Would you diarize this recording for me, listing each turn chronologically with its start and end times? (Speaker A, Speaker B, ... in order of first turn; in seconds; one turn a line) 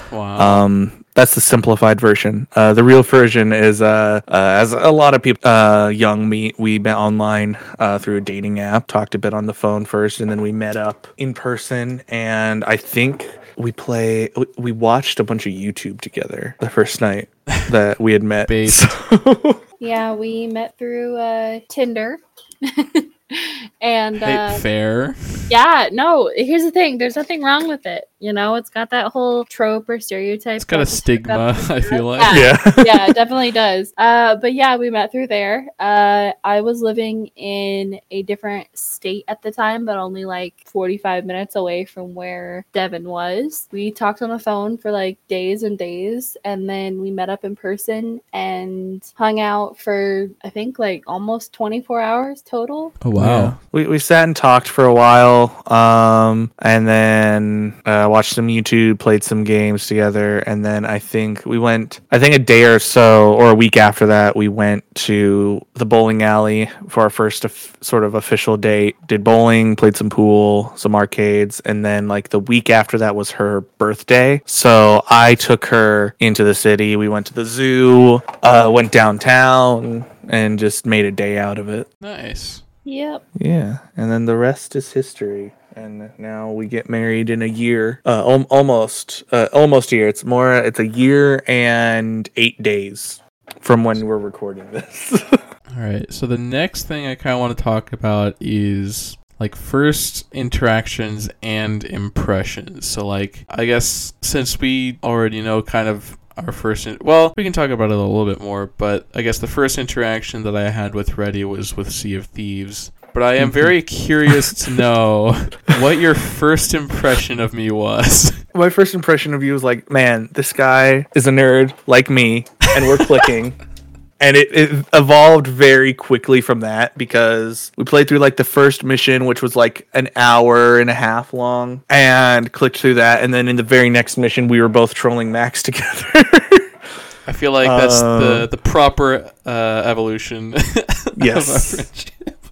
Speaker A: 0.1-0.6
Speaker B: 0.4-19.6
Speaker A: 18.5-18.9
Speaker C: 19.8-24.6
Speaker A: 24.2-25.5
Speaker C: 25.5-52.9
Speaker A: 30.6-32.5
Speaker B: 32.3-33.2
Speaker A: 53.0-53.5
Speaker B: 53.2-81.9
Speaker A: 82.0-82.6
Speaker C: 82.8-83.2
Speaker B: 83.4-95.4
Speaker A: 95.7-118.4
Speaker B: 113.4-113.7
Speaker B: 118.5-123.6
Speaker B: 124.2-136.7
Speaker A: 137.3-142.4
Speaker B: 137.6-138.5
Speaker B: 141.2-141.9